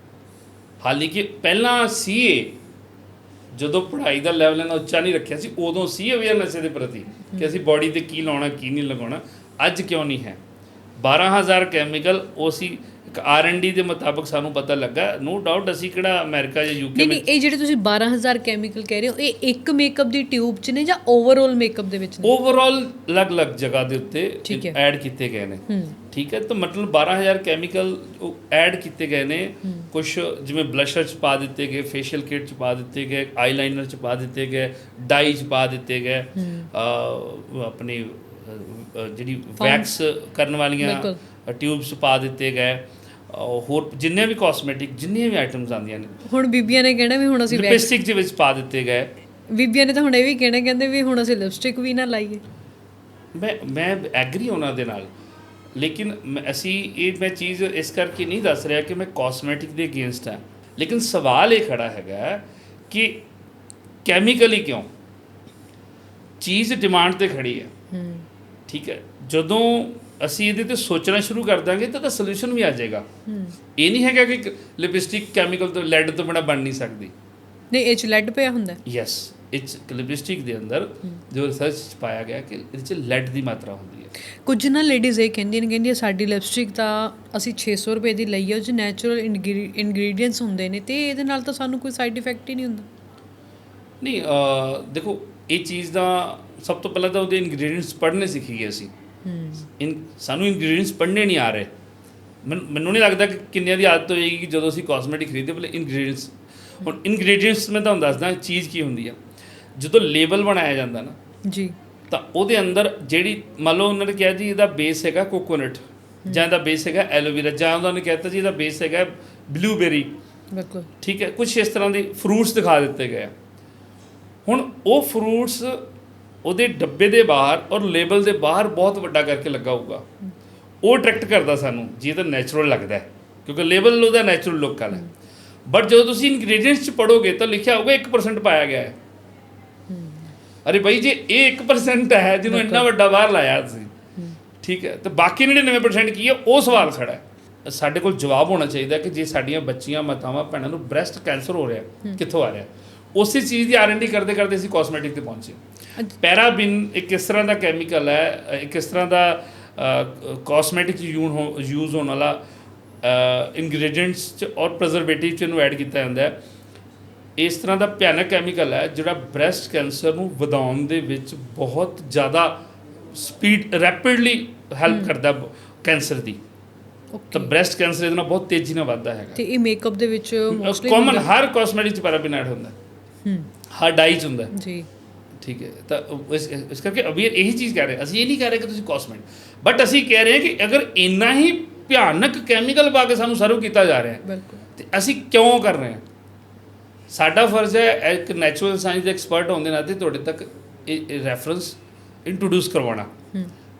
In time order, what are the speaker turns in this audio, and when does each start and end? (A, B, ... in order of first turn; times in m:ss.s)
0:00.8-0:02.6 A
0:03.5-0:10.4 A
0:11.0-0:17.2 A
0:16.9-0:22.3 B
0:22.2-0:46.2 A
0:24.4-0:24.8 B
0:25.7-0:26.0 B
0:36.4-0:36.7 B
0:39.6-0:39.9 B
0:40.8-0:41.2 B
0:46.2-0:47.9 B
0:47.5-0:49.1 A
0:49.5-0:52.4 B
0:53.3-0:55.1 A
0:55.8-1:03.2 A
1:04.0-1:04.9 A
1:06.4-1:07.7 A
1:07.9-1:08.3 B
1:08.7-1:13.0 A
1:13.3-1:13.6 B
1:13.8-1:17.1 A
1:17.7-1:18.8 B
1:18.8-1:24.1 A
1:24.4-1:32.9 B
1:34.0-1:38.9 A
1:39.2-1:39.7 B
1:39.8-1:41.7 A
1:42.4-1:49.2 A
1:49.8-1:51.2 A
1:51.4-1:51.7 B
1:52.1-2:00.1 A
2:00.5-2:00.9 B
2:01.0-2:03.3 A
2:04.4-2:05.8 A
2:06.4-2:10.0 A
2:10.8-2:15.0 A
2:15.7-2:19.0 A
2:19.9-2:20.3 B
2:20.6-2:23.9 A
2:22.5-2:22.8 B
2:24.6-2:35.6 A
2:36.1-2:42.4 A
2:43.0-2:46.3 A
2:47.4-2:52.6 A
2:53.1-2:56.4 A
2:54.9-2:55.1 B
2:57.1-2:57.5 B
2:57.3-2:59.4 A
2:59.4-3:01.3 B
3:00.5-3:02.7 A
3:03.2-3:03.5 B
3:03.7-3:04.5 A
3:04.5-3:04.9 B
3:05.4-3:14.2 A
3:14.2-3:14.6 B
3:14.7-3:16.0 A
3:17.1-3:23.1 A